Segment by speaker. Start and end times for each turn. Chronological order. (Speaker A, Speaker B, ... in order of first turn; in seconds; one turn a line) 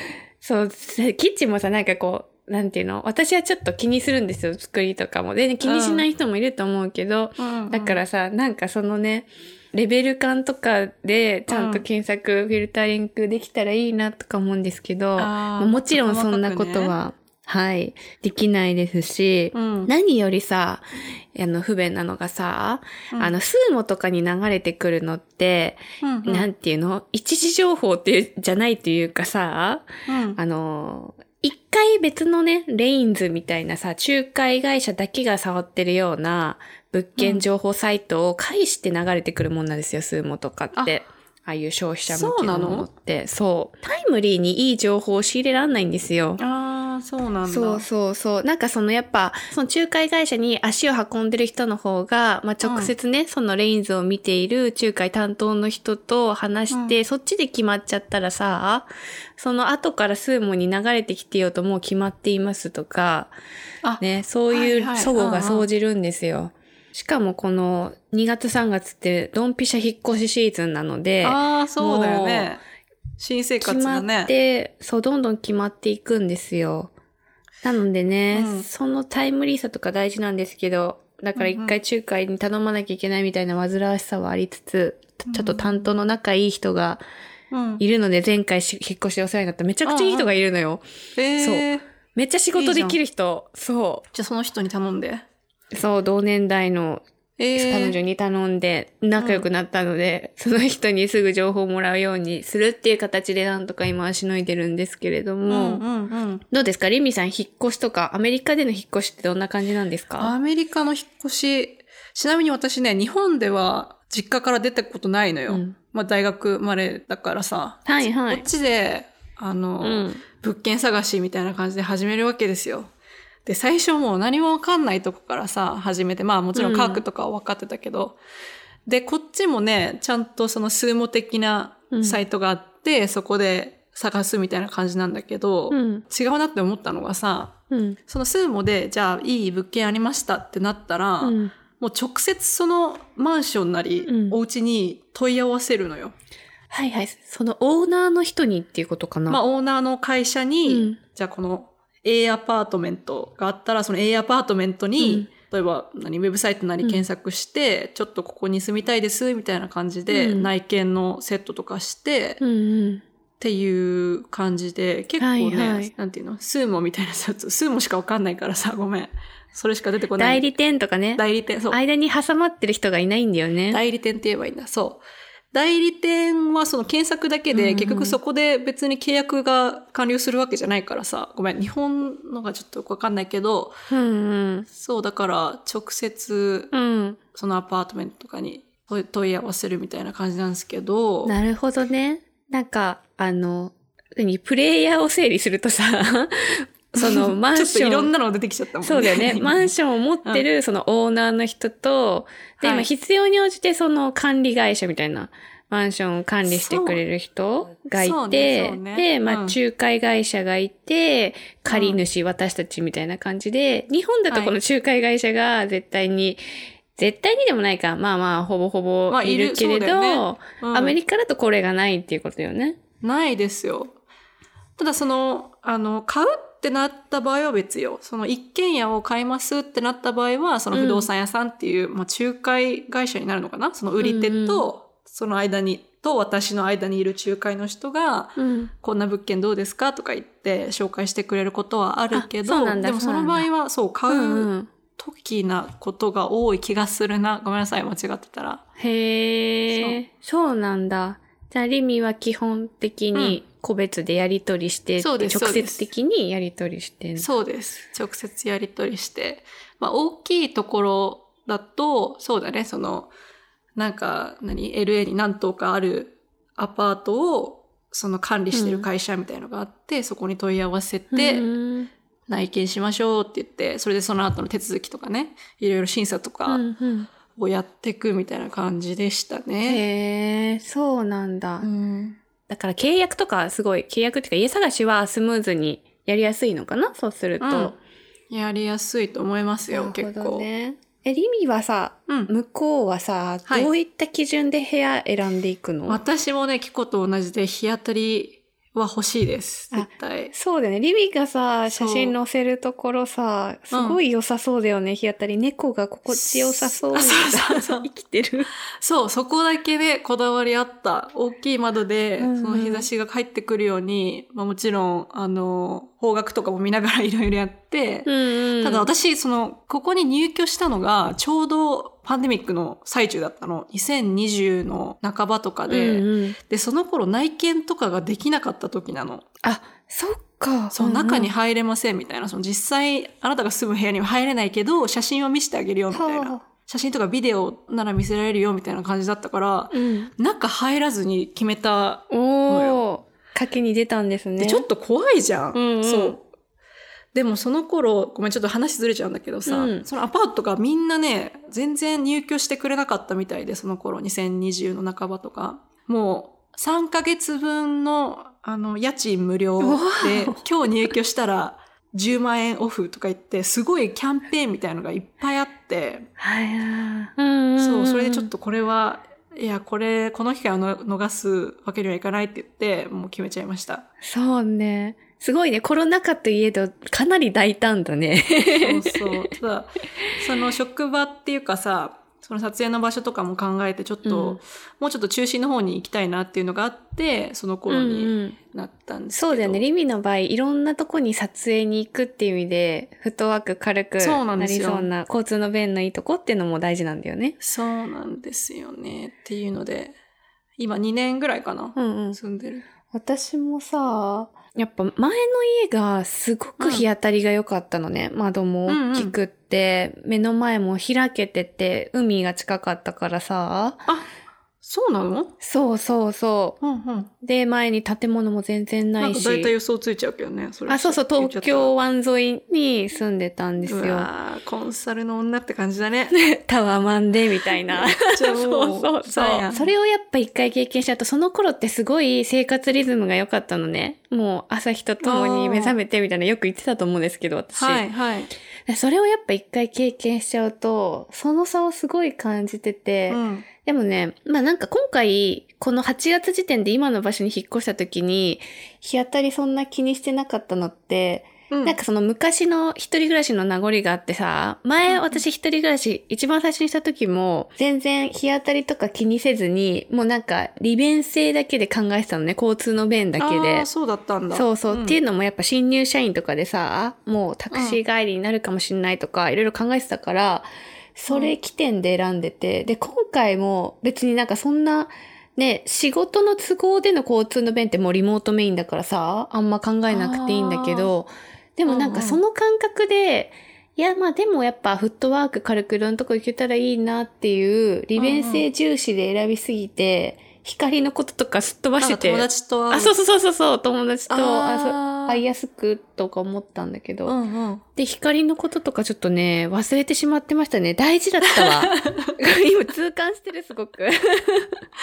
Speaker A: 0.4-46.4
Speaker B: 5.6-6.0
Speaker B: 7.4-8.0
Speaker B: 11.5-11.8
Speaker B: 15.2-16.9
Speaker B: 19.5-19.9
Speaker B: 26.0-26.5
Speaker B: 30.1-30.4
Speaker B: 37.2-37.4
Speaker B: 42.1-42.9
Speaker B: 46.4-47.8
Speaker A: 47.4-63.3
Speaker B: 52.6-52.9
Speaker B: 56.7-57.0
Speaker B: 63.8-65.7
Speaker A: 64.0-72.5
Speaker B: 71.2-72.6
Speaker B: 73.2-74.3
Speaker A: 73.6-76.9
Speaker A: 77.6-87.0
Speaker B: 78.3-78.7
Speaker B: 81.3-81.8
Speaker B: 85.3-85.9
Speaker B: 87.5-87.8
Speaker A: 87.8-90.8
Speaker B: 89.8-90.3
Speaker B: 91.2-91.8
Speaker A: 91.3-94.1
Speaker B: 92.5-93.0
Speaker B: 94.1-95.2
Speaker A: 95.7-105.8
Speaker B: 97.4-98.0
Speaker B: 99.2-99.4
Speaker B: 105.5-106.4
Speaker A: 106.5-110.3
Speaker B: 110.2-122.9
Speaker A: 115.5-115.8
Speaker A: 117.8-118.4
Speaker A: 119.8-120.2
Speaker B: 123.5-128.2
Speaker A: 126.5-127.0
Speaker B: 128.9-137.6
Speaker A: 131.9-132.2
Speaker A: 135.7-136.0
Speaker A: 137.7-138.0
Speaker B: 138.1-146.1
Speaker A: 141.2-141.5
Speaker A: 144.1-144.4
Speaker A: 146.7-149.4
Speaker B: 149.3-162.4
Speaker A: 150.7-151.0
Speaker A: 155.0-155.3
Speaker A: 160.1-160.5
Speaker A: 162.4-163.0
Speaker B: 163.4-170.5
Speaker A: 165.2-165.9
Speaker A: 170.2-173.8
Speaker B: 171.2-171.8
Speaker B: 173.7-183.7
Speaker A: 177.5-178.2
Speaker A: 183.9-184.7
Speaker B: 184.7-186.7
Speaker A: 186.7-187.2
Speaker B: 187.3-191.3
Speaker A: 191.2-198.1
Speaker B: 196.9-199.7
Speaker A: 198.8-216.4
Speaker B: 202.6-202.9
Speaker B: 206.4-207.0
Speaker B: 207.9-209.6
Speaker B: 211.7-212.0
Speaker B: 214.3-214.5
Speaker A: 216.9-222.8
Speaker B: 219.1-220.9
Speaker B: 223.0-224.0
Speaker B: 224.8-248.6
Speaker A: 230.7-231.1
Speaker A: 234.0-234.7
Speaker A: 238.4-238.7
Speaker A: 242.1-243.5
Speaker A: 244.1-244.7
Speaker A: 248.8-257.3
Speaker B: 249.7-250.0
Speaker B: 253.1-253.4
Speaker B: 255.0-255.9
Speaker B: 257.2-263.1
Speaker B: 263.8-271.5
Speaker A: 268.5-268.9
Speaker A: 271.1-271.9
Speaker B: 272.3-276.6
Speaker A: 276.5-277.1
Speaker B: 277.4-279.8
Speaker A: 279.6-281.7
Speaker B: 281.6-282.2
Speaker A: 282.5-287.8
Speaker B: 287.4-287.8
Speaker B: 288.3-290.4
Speaker A: 289.7-296.0
Speaker B: 295.9-300.3
Speaker A: 299.7-308.5
Speaker B: 301.7-302.1
Speaker B: 303.7-304.0
Speaker B: 306.1-307.9
Speaker B: 308.8-329.2
Speaker A: 312.2-312.9
Speaker A: 318.1-318.9
Speaker A: 325.7-326.4
Speaker A: 329.4-331.3
Speaker B: 330.7-342.8
Speaker A: 335.9-336.4
Speaker A: 339.7-340.1
Speaker A: 342.1-344.7
Speaker B: 344.4-346.2
Speaker A: 345.5-346.2
Speaker B: 347.1-366.1
Speaker A: 349.5-349.9
Speaker A: 359.6-360.9
Speaker A: 366.2-368.3
Speaker B: 367.6-373.8
Speaker A: 374.0-379.1
Speaker B: 378.6-389.6
Speaker A: 384.0-384.4
Speaker A: 387.7-388.4
Speaker A: 389.1-397.4
Speaker B: 394.0-394.9
Speaker B: 397.4-399.9
Speaker B: 400.6-402.6
Speaker A: 401.8-402.2
Speaker A: 402.9-413.9
Speaker B: 406.6-406.9
Speaker B: 408.7-409.1
Speaker B: 414.6-415.3
Speaker A: 415.4-416.6
Speaker B: 416.6-417.1
Speaker A: 417.2-419.5
Speaker B: 419.0-421.7
Speaker A: 420.7-424.1
Speaker B: 423.6-426.1
Speaker A: 426.1-437.8
Speaker B: 427.7-429.7
Speaker B: 435.0-435.8
Speaker B: 437.6-438.3
Speaker A: 438.6-463.7
Speaker B: 443.1-443.5
Speaker B: 451.5-451.8
Speaker B: 454.9-455.2
Speaker B: 463.2-465.0
Speaker A: 464.3-497.1
Speaker B: 467.5-467.8
Speaker B: 471.1-471.4
Speaker B: 479.9-480.9
Speaker B: 481.6-482.2
Speaker B: 487.9-488.4
Speaker B: 491.8-492.9
Speaker B: 494.1-495.2
Speaker B: 497.1-497.6
Speaker A: 497.8-504.6
Speaker B: 501.4-502.1